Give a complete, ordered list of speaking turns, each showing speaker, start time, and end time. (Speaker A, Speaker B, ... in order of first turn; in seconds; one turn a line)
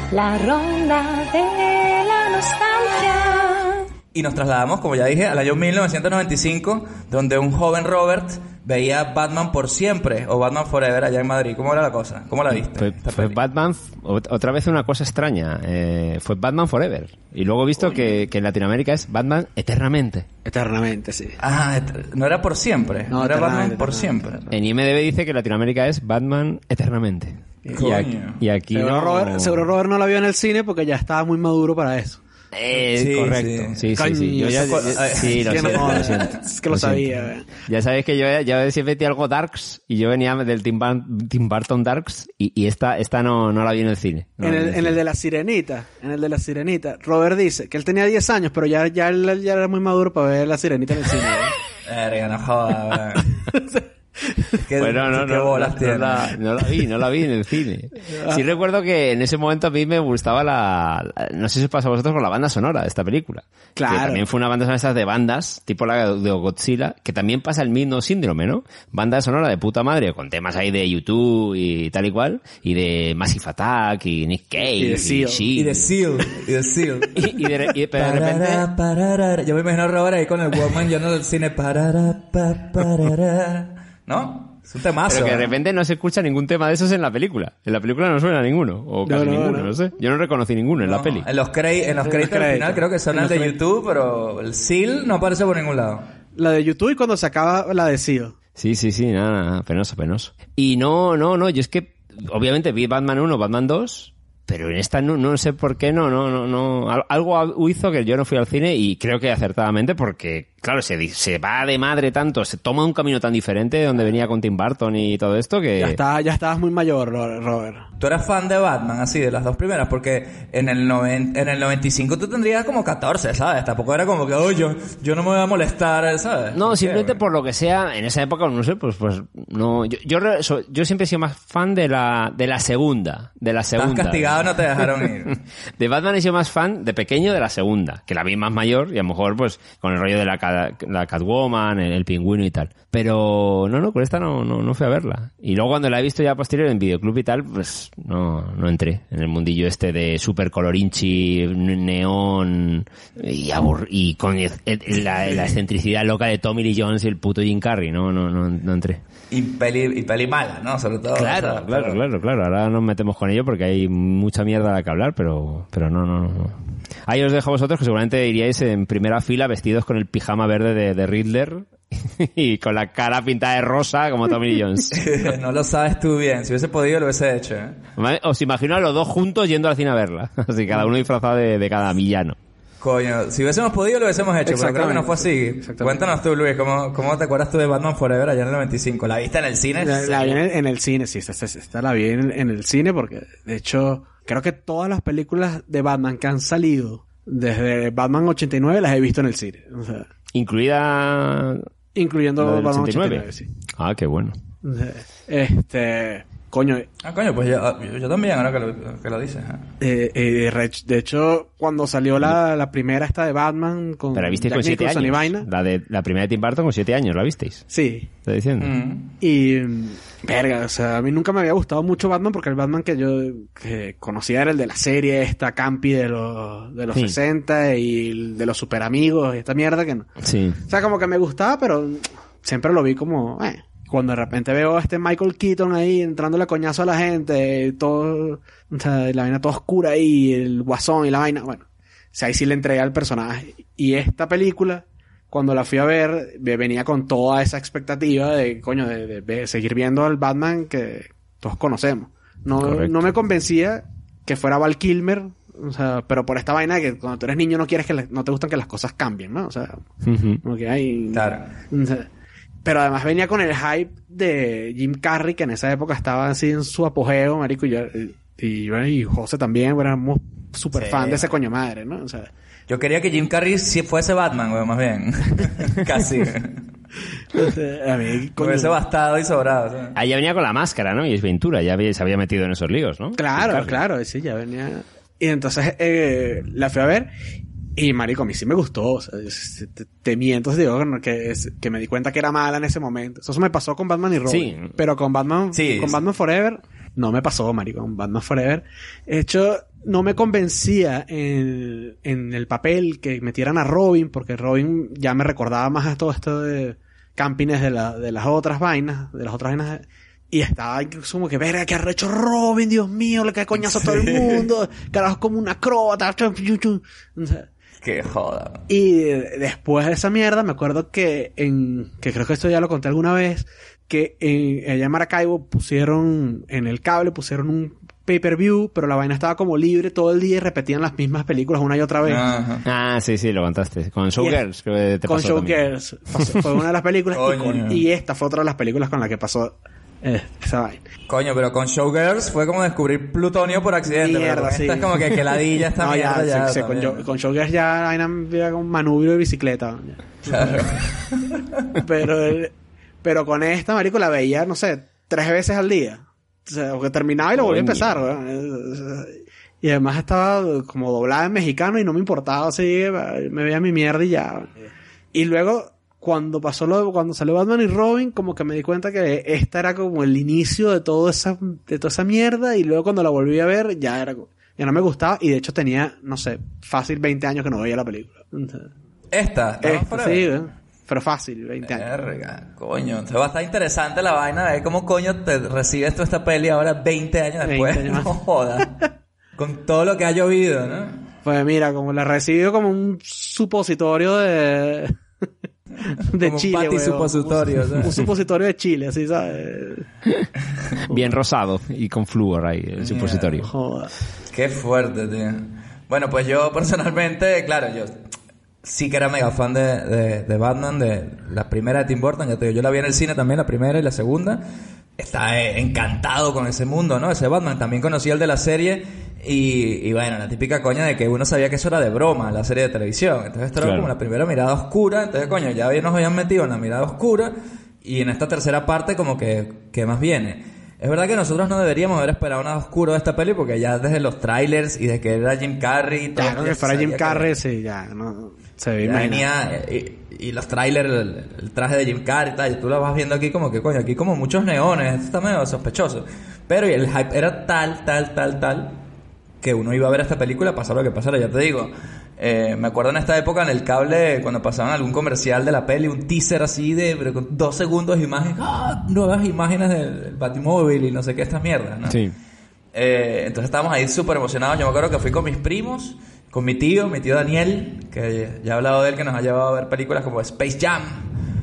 Speaker A: 0.1-3.9
Speaker B: 4.1-13.4
Speaker C: 12.5-20.3
Speaker D: 20.4-21.4
Speaker B: 21.4-24.5
Speaker D: 23.1-24.1
Speaker C: 24.5-29.7
Speaker B: 27.7-28.4
Speaker D: 28.7-32.2
Speaker C: 32.5-45.0
Speaker B: 32.9-36.2
Speaker D: 34.0-37.5
Speaker D: 44.4-51.5
Speaker B: 51.9-53.4
Speaker D: 53.5-54.5
Speaker B: 54.6-56.4
Speaker C: 54.8-75.8
Speaker D: 58.1-58.4
Speaker D: 63.8-64.2
Speaker D: 74.6-75.5
Speaker B: 75.5-85.5
Speaker C: 77.2-78.7
Speaker C: 85.1-91.3
Speaker D: 89.1-89.7
Speaker B: 90.8-96.1
Speaker D: 92.0-93.6
Speaker D: 96.3-98.3
Speaker C: 98.6-116.0
Speaker D: 115.8-117.8
Speaker B: 118.0-127.2
Speaker C: 126.5-135.1
Speaker B: 133.8-135.4
Speaker C: 135.8-159.0
Speaker B: 159.3-162.0
Speaker C: 161.1-175.0
Speaker B: 174.9-177.8
Speaker C: 178.0-182.4
Speaker B: 182.8-190.4
Speaker D: 184.5-186.0
Speaker D: 189.8-200.1
Speaker C: 200.3-201.7
Speaker D: 201.9-203.5
Speaker C: 202.4-204.4
Speaker D: 204.6-206.9
Speaker B: 207.0-209.7
Speaker D: 209.8-215.5
Speaker C: 214.1-217.7
Speaker D: 217.7-218.1
Speaker C: 218.2-218.7
Speaker B: 218.6-219.1
Speaker D: 219.2-230.1
Speaker C: 226.9-227.2
Speaker C: 230.2-230.6
Speaker D: 230.7-259.8
Speaker C: 252.6-253.2
Speaker C: 260.0-260.4
Speaker D: 260.4-262.1
Speaker B: 261.1-261.5
Speaker D: 262.6-272.3
Speaker C: 270.9-271.3
Speaker B: 272.7-276.6
Speaker D: 277.4-278.8
Speaker B: 278.4-279.9
Speaker C: 279.9-283.8
Speaker D: 283.2-287.1
Speaker D: 287.8-317.5
Speaker C: 294.3-294.7
Speaker B: 295.5-296.0
Speaker B: 313.6-314.5
Speaker B: 317.8-318.6
Speaker D: 318.7-332.2
Speaker B: 332.0-332.6
Speaker C: 332.7-335.6
Speaker D: 335.1-340.8
Speaker B: 337.1-337.9
Speaker B: 341.1-347.1
Speaker D: 343.9-344.9
Speaker D: 345.8-350.6
Speaker B: 350.3-351.6
Speaker D: 351.8-352.5
Speaker D: 353.0-378.7
Speaker C: 357.3-358.0
Speaker B: 379.1-380.3
Speaker D: 379.6-381.9
Speaker B: 381.7-391.0
Speaker D: 387.4-388.1
Speaker D: 391.2-395.0
Speaker D: 395.9-399.9
Speaker B: 396.2-398.0
Speaker C: 400.9-403.5
Speaker B: 402.8-403.4
Speaker D: 403.4-403.9
Speaker B: 404.3-407.9
Speaker B: 408.6-414.4
Speaker B: 415.0-437.4
Speaker C: 423.6-423.9
Speaker D: 436.2-439.2
Speaker B: 438.8-448.8
Speaker B: 449.4-462.0
Speaker C: 461.9-462.1
Speaker B: 462.7-471.1